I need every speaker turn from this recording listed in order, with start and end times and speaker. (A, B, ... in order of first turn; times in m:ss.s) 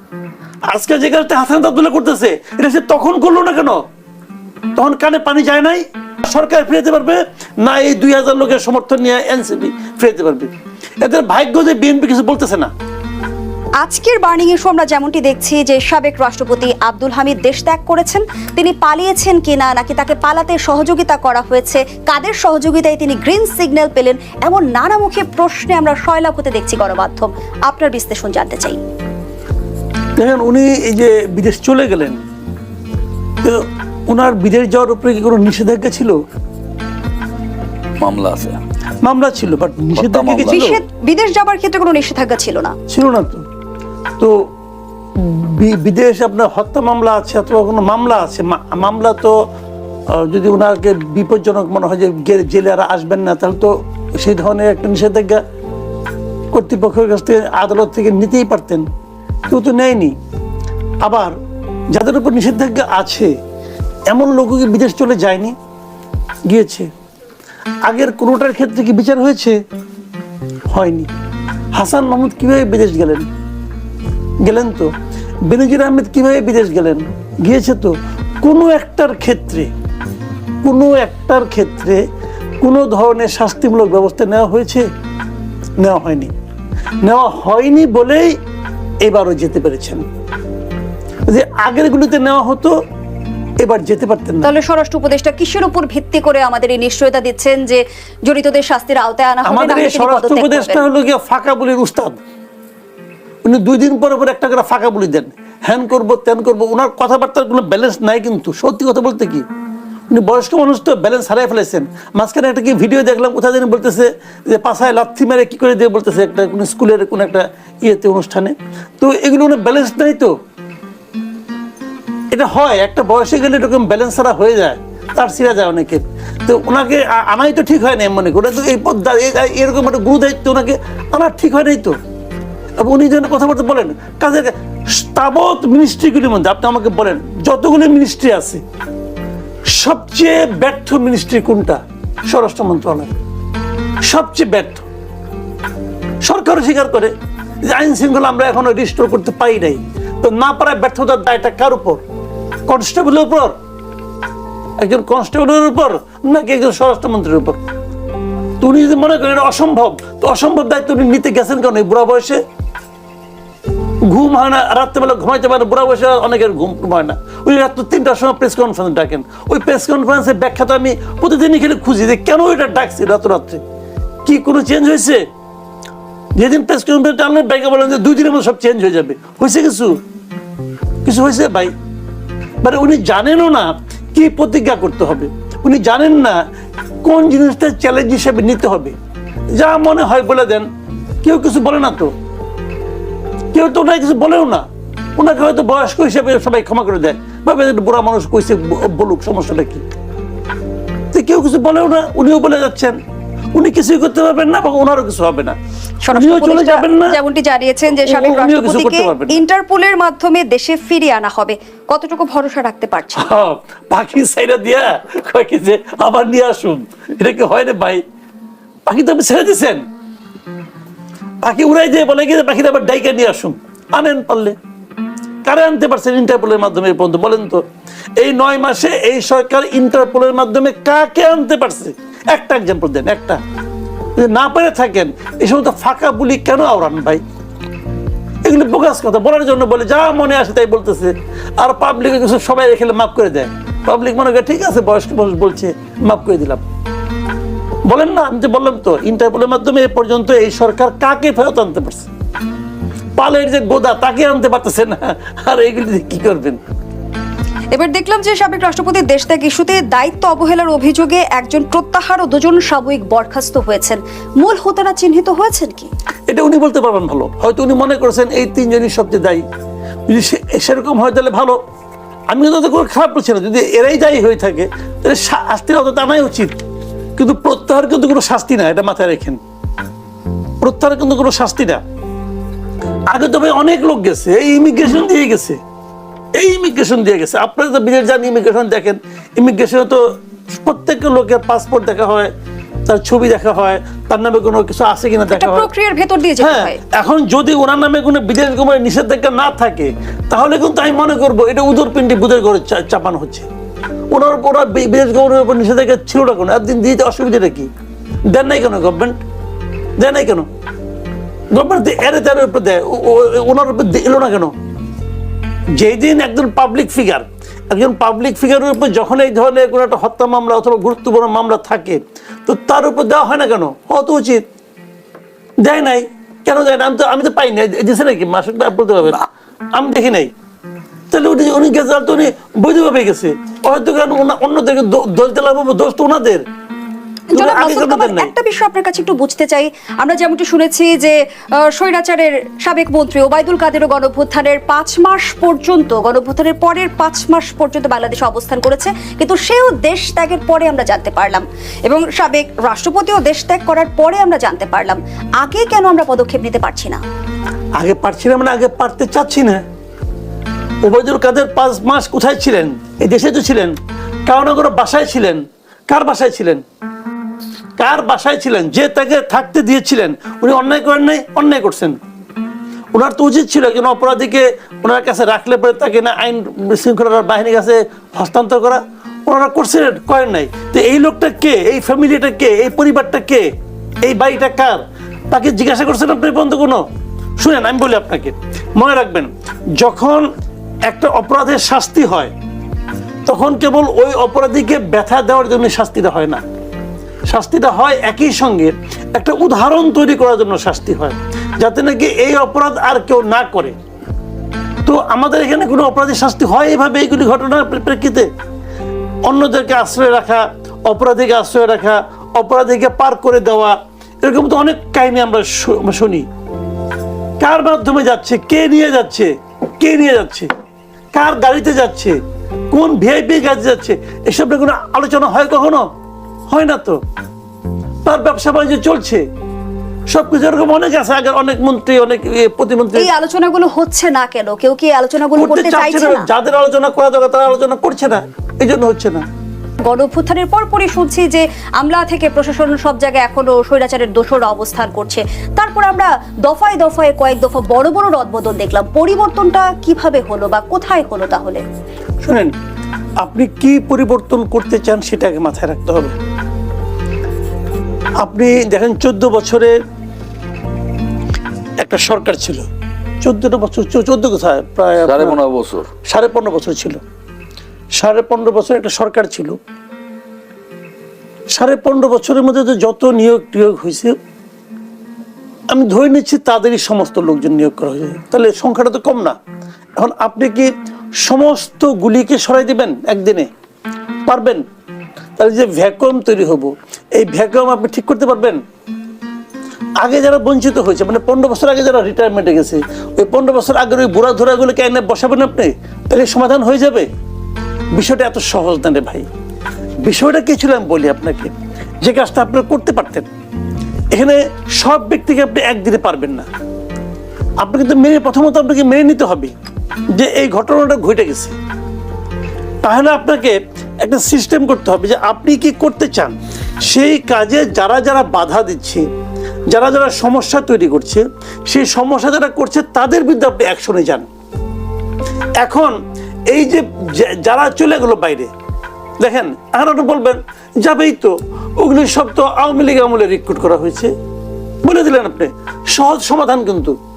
0:00.7-0:03.8 A
0:04.8-0:10.5 A
0:11.0-0:12.7 A
0:13.8-0:28.8 B
0:30.2-0:32.2 A
0:33.4-0:36.2 A
0:38.0-0:38.6 C
0:39.0-0:40.8 A
0:40.0-0:40.7 C
0:40.5-0:42.8 B
0:42.9-0:43.4 A
0:45.2-0:49.4 A
0:50.1-0:55.4 A
0:56.5-0:58.9 A
0:59.5-1:00.2 A
1:01.0-1:01.4 A
1:01.9-1:03.3 A
1:04.1-1:05.6 A
1:06.5-1:06.9 A
1:07.9-1:09.6 A
1:10.7-1:11.1 A
1:11.8-1:13.3 A
1:14.4-1:14.9 A
1:15.5-1:19.7 A
1:20.6-1:22.0 A
1:22.6-1:24.9 A
1:25.8-1:26.3 A
1:27.0-1:28.4 A
1:29.0-1:30.0 A
1:31.3-1:32.8 A
1:33.6-1:34.5 A
1:34.4-1:40.9 B
1:39.4-1:42.2 A
1:43.4-1:49.4 A
1:50.1-2:00.3 A
2:02.3-2:12.0 A
2:12.8-2:18.6 A
2:19.7-2:23.1 A
2:24.0-2:24.9 A
2:26.2-2:27.1 A
2:27.7-2:32.0 A
2:32.7-2:33.6 A
2:34.8-2:37.6 A
2:38.6-2:42.4 A
2:44.1-2:53.6 A
2:54.2-2:55.2 A
2:56.4-3:00.0 A
3:01.0-3:01.7 A
3:02.6-3:06.4 A
3:07.0-3:08.9 A
3:09.6-3:10.7 A
3:11.2-3:12.1 A
3:13.5-3:14.6 A
3:15.2-3:19.8 A
3:21.1-3:23.0 A
3:23.6-3:25.6 A
3:26.1-3:33.3 B
3:26.1-3:27.2 A
3:27.9-3:29.4 A
3:33.2-3:38.0 A
3:38.9-3:39.8 A
3:41.4-3:44.6 A
3:45.4-3:47.6 A
3:48.2-3:53.4 A
3:54.2-3:57.2 A
3:58.4-4:06.6 A
4:07.9-4:12.1 A
4:13.2-4:16.6 A
4:17.7-4:25.9 B
4:26.3-4:29.4 A
4:30.1-4:31.6 A
4:32.3-4:36.6 A
4:37.2-4:39.4 A
4:40.6-4:41.8 A
4:43.1-4:45.6 A
4:46.4-4:52.3 A
4:52.9-4:55.7 A
4:55.4-4:56.8 B
4:56.4-5:03.5 A
5:04.1-5:07.7 A
5:08.3-5:09.2 A
5:10.0-5:10.5 A
5:11.5-5:14.5 A
5:15.8-5:24.4 A
5:25.6-5:30.3 A
5:31.1-5:36.4 A
5:37.3-5:57.0 B
5:37.3-5:38.3 A
5:57.8-5:59.6 A
6:00.8-6:03.8 A
6:04.3-6:06.6 A
6:07.8-6:12.0 A
6:12.9-6:23.4 A
6:24.0-6:26.8 A
6:27.4-6:30.3 A
6:30.9-6:32.3 A
6:33.3-6:36.4 A
6:37.3-6:43.8 A
6:44.9-6:48.3 A
6:49.3-6:56.3 A
6:57.4-7:00.5 A
7:01.1-7:02.2 A
7:02.7-7:05.8 A
7:06.5-7:07.0 A
7:08.1-7:09.2 A
7:10.1-7:13.1 A
7:13.0-7:16.3 B
7:15.4-7:19.3 A
7:19.8-7:31.6 B
7:32.2-7:32.5 A
7:33.2-7:36.2 A
7:38.2-7:39.8 A
7:41.8-7:42.7 A
7:43.2-7:45.4 A
7:45.0-7:45.9 C
7:46.1-7:47.0 A
7:48.0-7:49.6 A
7:51.6-7:54.2 A
7:55.7-7:59.4 A
8:00.0-8:00.7 A
8:01.2-8:03.5 A
8:04.3-8:04.6 A
8:05.4-8:08.6 A
8:10.0-8:17.1 A
8:18.0-8:19.3 A
8:20.0-8:23.3 A
8:24.1-8:26.5 A
8:27.6-8:29.5 A
8:30.1-8:31.6 A
8:32.8-8:39.0 A
8:39.7-8:44.3 A
8:45.6-8:46.0 A
8:46.5-8:48.5 A
8:49.2-8:54.1 A
8:54.8-8:57.0 A